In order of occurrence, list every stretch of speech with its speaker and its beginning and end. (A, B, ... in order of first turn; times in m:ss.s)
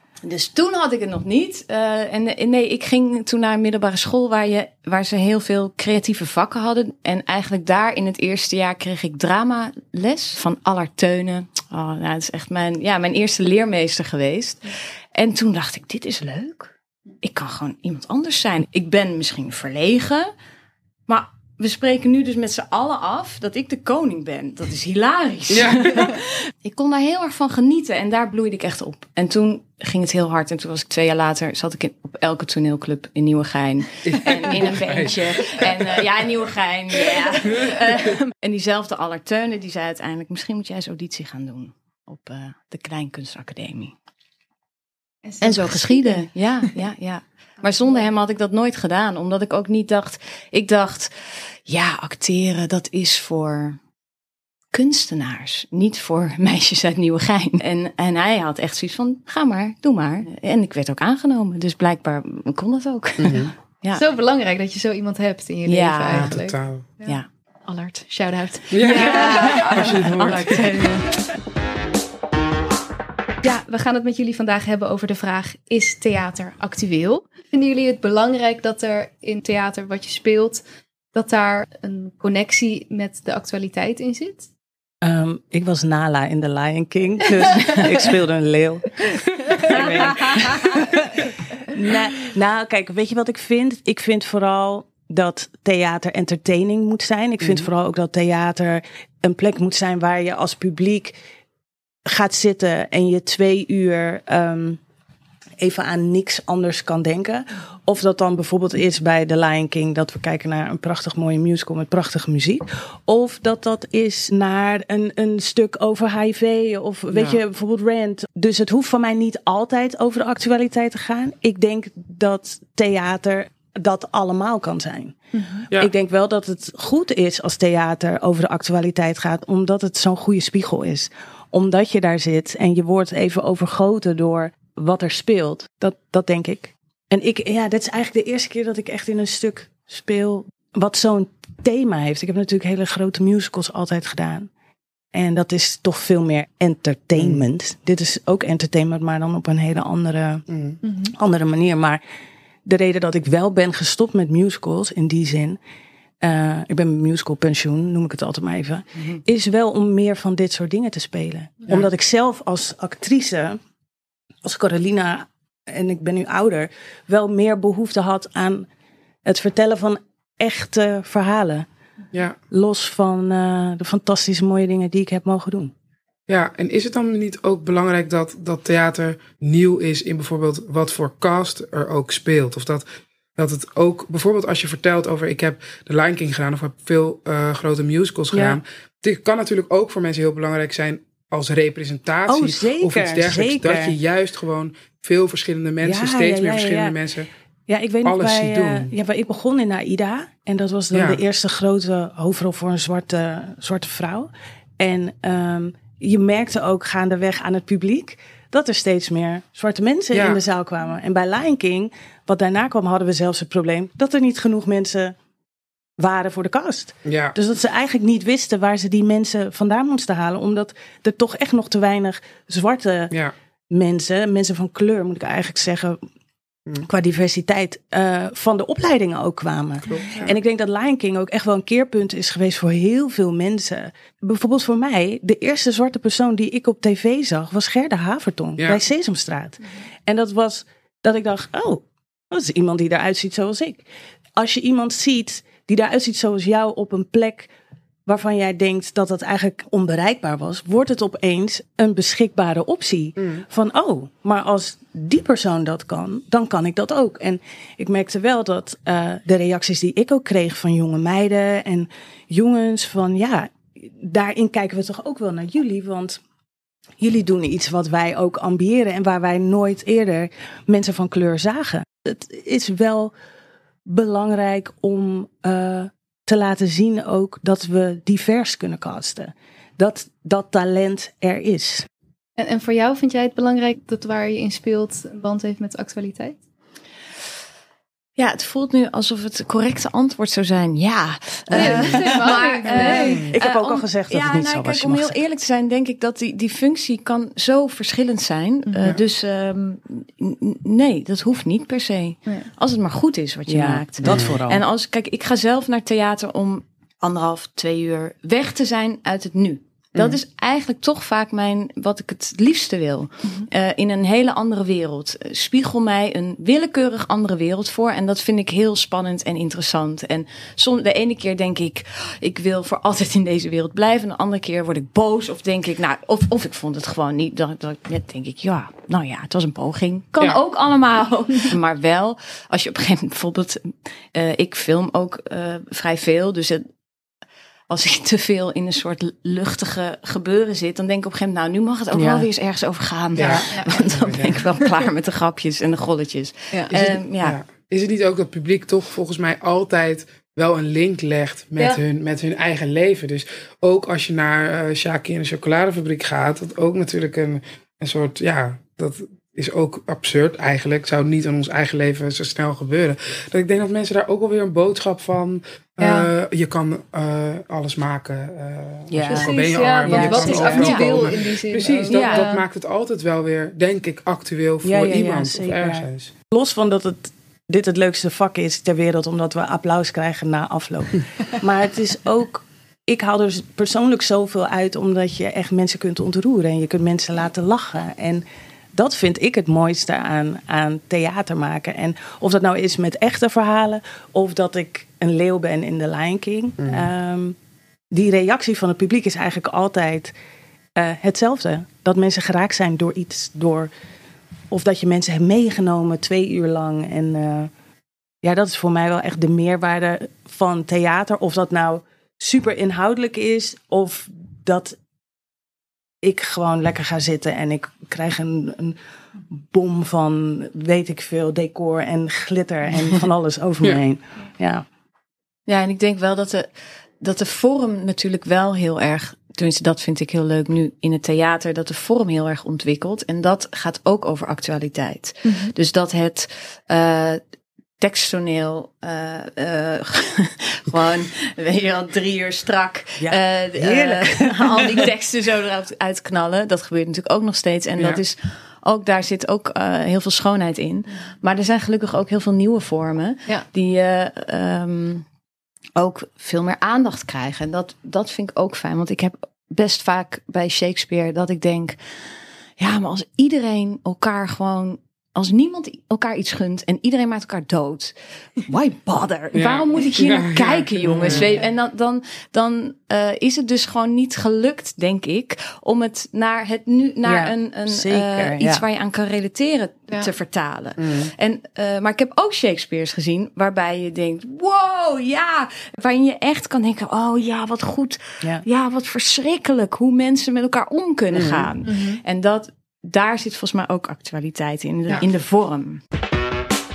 0:00.2-0:20.3 A
0:21.1-0:43.9 A
0:25.5-0:26.2 B
0:34.0-0:36.0 B
0:37.4-0:38.2 B
0:45.2-0:46.3 C
0:45.4-0:53.8 A
0:54.7-1:04.0 A
1:03.2-1:03.5 B
1:04.0-1:10.1 C
1:05.7-1:06.4 A
1:06.1-1:06.9 B
1:08.7-1:10.9 B
1:08.8-1:11.1 A
1:13.4-1:24.5 C
1:25.0-1:41.2 D
1:29.5-1:29.7 C
1:29.7-1:30.7 A
1:42.1-1:44.8 D
1:45.6-2:05.2 D
1:57.1-1:57.4 B
2:05.3-2:05.7 C
2:05.7-2:24.5 D
2:25.1-2:30.5 D
2:27.2-2:27.4 B
2:30.5-2:30.8 B
2:30.8-2:31.1 C
2:31.1-2:32.0 D
2:32.7-2:35.6 D
2:36.2-2:43.6 D
2:44.4-2:48.7 D
2:49.2-2:51.7 D
2:52.5-2:55.7 D
2:56.3-3:02.9 B
3:03.4-3:17.3 B
3:08.3-3:08.6 D
3:12.3-3:14.0 D
3:15.8-3:17.0 D
3:17.7-3:35.2 D
3:18.0-3:18.9 B
3:20.9-3:21.2 B
3:30.1-3:30.4 B
3:36.0-3:43.1 D
3:37.0-3:37.4 B
3:43.7-3:46.0 D
3:46.8-4:07.5 D
3:49.9-3:50.4 B
4:08.1-4:26.2 D
4:13.2-4:13.4 B
4:27.0-4:33.1 D
4:33.9-4:41.9 D
4:42.4-4:46.4 C
4:48.2-5:36.6 A
4:51.5-4:55.2 D
4:51.5-4:53.3 C
4:53.0-4:53.3 B
5:03.5-5:04.6 D
5:04.0-5:04.4 B
5:37.7-5:47.4 A
5:41.9-5:42.3 D
5:43.2-5:44.4 B
5:43.5-5:43.9 C
5:46.7-6:16.0 B
6:05.8-6:06.1 C
6:08.9-6:09.3 D
6:09.1-6:12.4 C
6:09.9-6:11.2 A
6:09.9-6:10.2 D
6:11.9-6:12.3 A
6:14.6-6:37.4 D
6:36.6-6:36.9 B
6:37.9-6:40.1 D
6:40.8-6:43.7 D
6:44.5-6:47.5 D
6:48.2-6:54.8 D
6:56.0-6:58.8 D
6:59.3-7:04.7 D
7:05.5-7:17.2 A
7:15.2-7:15.5 C
7:17.8-7:35.0 A
7:23.0-7:24.9 D
7:35.8-7:42.0 A
7:42.6-8:15.8 A
7:49.3-7:51.4 B
7:51.0-7:51.5 D
7:57.0-7:58.6 D
8:00.8-8:01.1 B
8:11.1-8:11.5 B
8:11.6-8:12.0 C